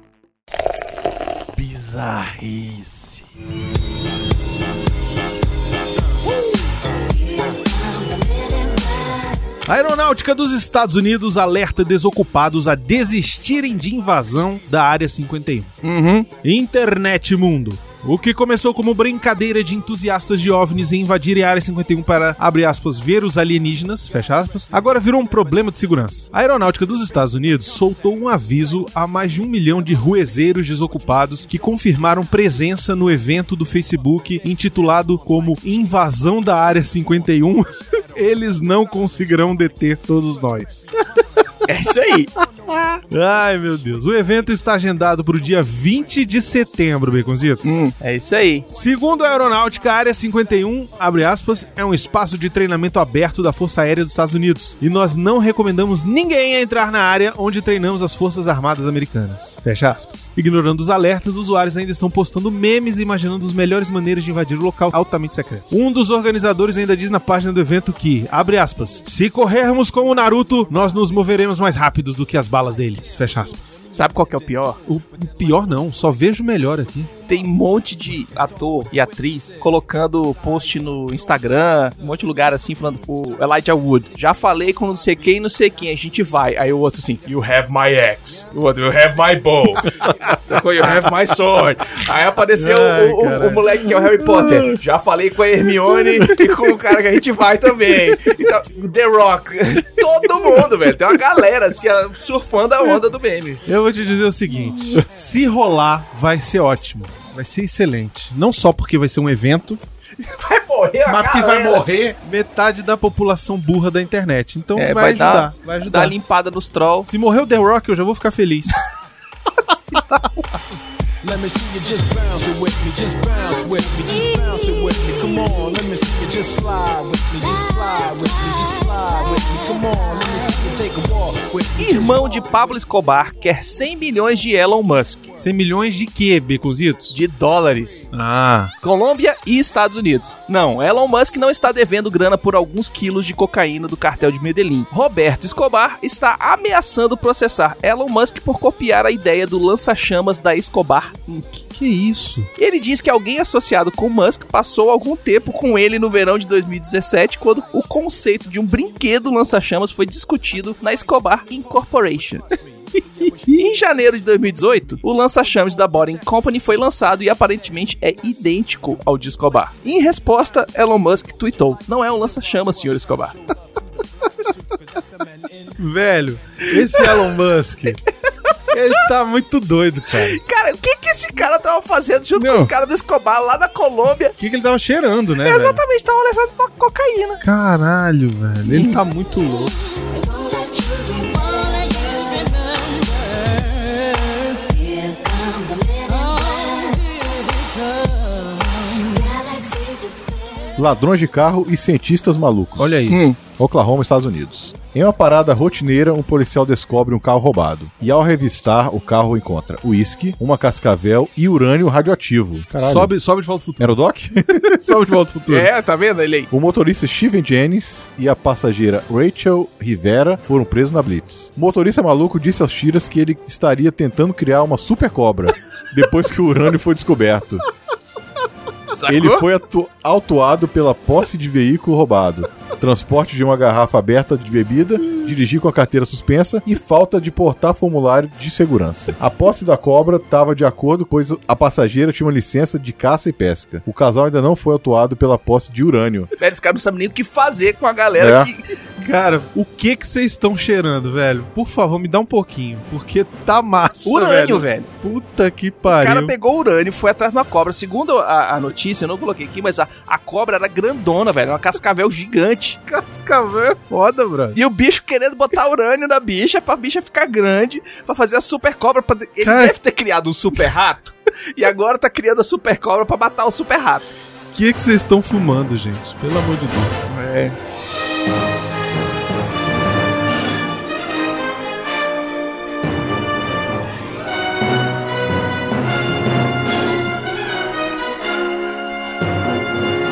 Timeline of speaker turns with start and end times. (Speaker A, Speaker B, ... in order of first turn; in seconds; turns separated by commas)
Speaker A: 1.6-3.2, Speaker B: 7.3-9.0, Speaker A: 9.7-41.0, Speaker C: 15.8-16.3, Speaker C: 41.6-42.3, Speaker A: 42.6-47.8, Speaker C: 47.6-48.6, Speaker A: 48.7-73.8, Speaker C: 73.9-74.8, Speaker A: 74.8-77.1, Speaker C: 77.3-103.6, Speaker A: 92.6-93.7, Speaker A: 103.6-109.8, Speaker C: 110.2-111.9, Speaker A: 111.0-116.1, Speaker C: 114.7-117.1, Speaker A: 117.1-118.8, Speaker D: 121.2-132.4, Speaker C: 131.8-135.3, Speaker A: 135.4-137.2, Speaker C: 137.1-138.1, Speaker A: 138.1-138.7, Speaker C: 138.8-151.7, Speaker A: 151.7-152.5, Speaker C: 152.6-162.5, Speaker C: 163.3-173.4, Speaker A: 175.8-178.0, Speaker C: 176.8-177.3, Speaker A: 178.7-180.4, Speaker C: 180.1-184.3, Speaker A: 182.3-182.7, Speaker A: 184.4-185.8, Speaker C: 185.4-187.4, Speaker A: 187.4-189.7, Speaker B: 190.1-193.7, Speaker B: 194.7-200.7, Speaker E: 200.8-213.1, Speaker A: 202.8-203.2, Speaker C: 203.1-203.4, Speaker A: 212.7-215.7, Speaker E: 213.8-215.0, Speaker C: 215.5-216.5, Speaker E: 216.5-227.6, Speaker C: 228.9-229.4, Speaker E: 229.1-246.3, Speaker C: 246.4-248.6, Speaker E: 248.2-248.5, Speaker A: 249.0-256.3, Speaker C: 254.0-254.9, Speaker C: 255.9-262.8, Speaker A: 262.9-264.6, Speaker C: 264.5-274.1, Speaker A: 269.4-269.7, Speaker A: 274.5-276.9, Speaker C: 277.1-277.6